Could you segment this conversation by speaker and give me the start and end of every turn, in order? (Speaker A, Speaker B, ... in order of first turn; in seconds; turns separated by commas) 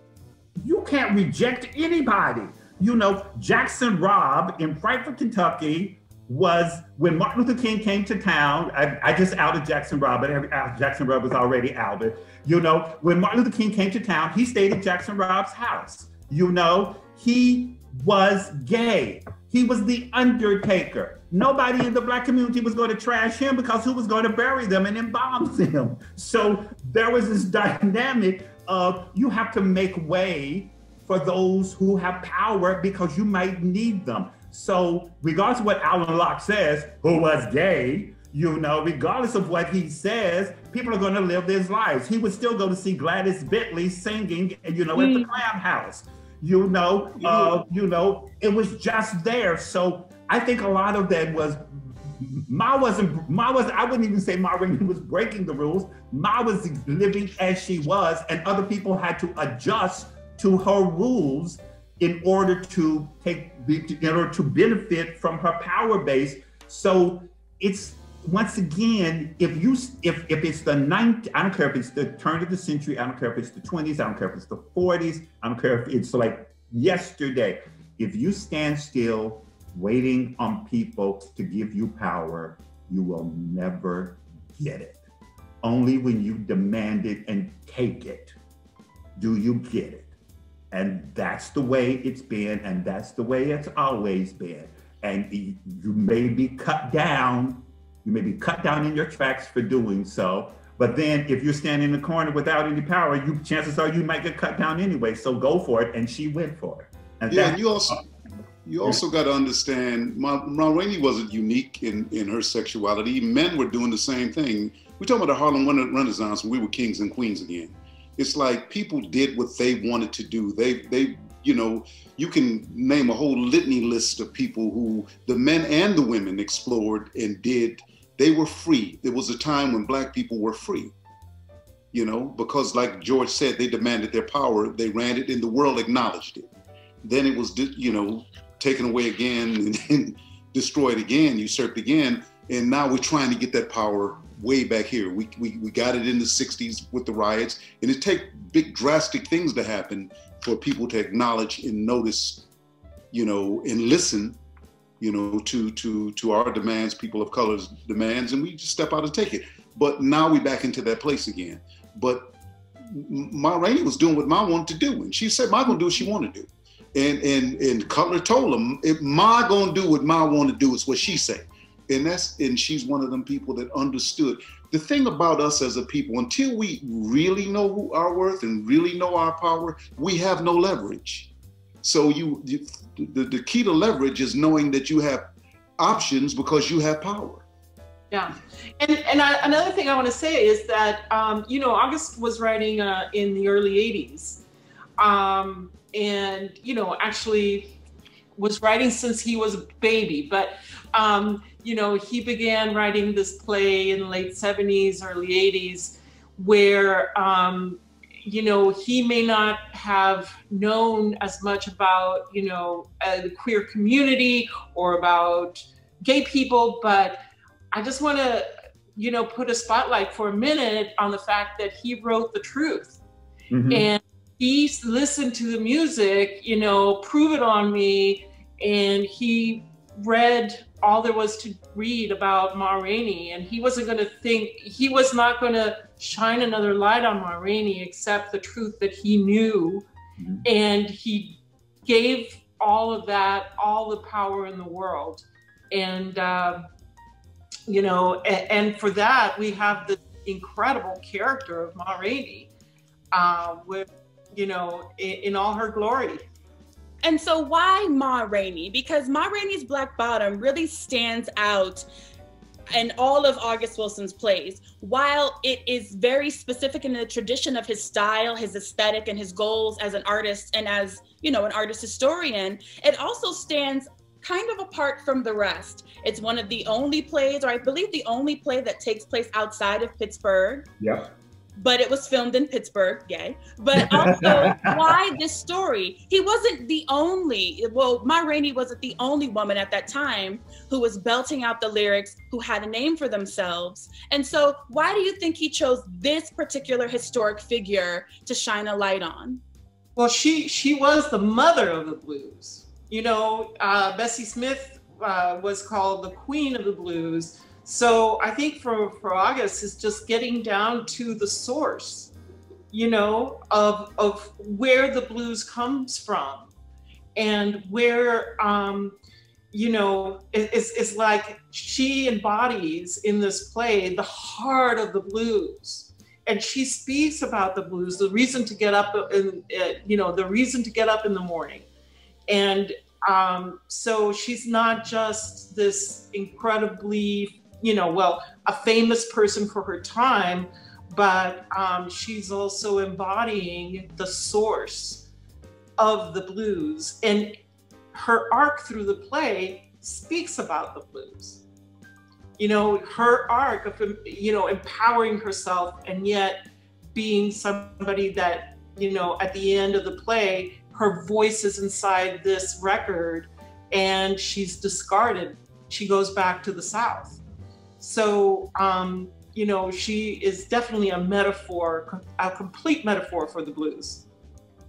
Speaker A: 0.6-85.0, Speaker B: 45.0-45.4, Speaker C: 47.2-47.5, Speaker A: 85.6-88.4, Speaker A: 89.2-90.1, Speaker A: 90.7-108.0, Speaker C: 107.3-108.0, Speaker C: 108.7-130.9, Speaker C: 131.9-136.5, Speaker C: 137.0-152.5, Speaker C: 153.1-154.4, Speaker C: 155.0-162.3, Speaker C: 162.9-181.3, Speaker C: 181.8-187.4, Speaker D: 188.1-194.4, Speaker D: 195.0-197.8, Speaker D: 198.4-217.2, Speaker D: 217.7-223.0, Speaker A: 223.5-223.9, Speaker D: 223.7-239.9, Speaker A: 240.2-240.5, Speaker D: 240.4-246.6, Speaker D: 247.7-252.5, Speaker D: 253.1-256.2, Speaker B: 257.0-261.9, Speaker B: 262.7-280.7, Speaker A: 280.8-281.1, Speaker B: 281.6-299.4, Speaker A: 283.8-285.1, Speaker D: 300.0-312.1, Speaker D: 312.7-316.5, Speaker D: 317.1-319.0, Speaker D: 319.5-331.7, Speaker D: 332.3-345.1, Speaker D: 345.8-347.4, Speaker D: 347.9-351.4, Speaker D: 352.4-356.4, Speaker D: 356.9-367.2, Speaker D: 367.8-374.1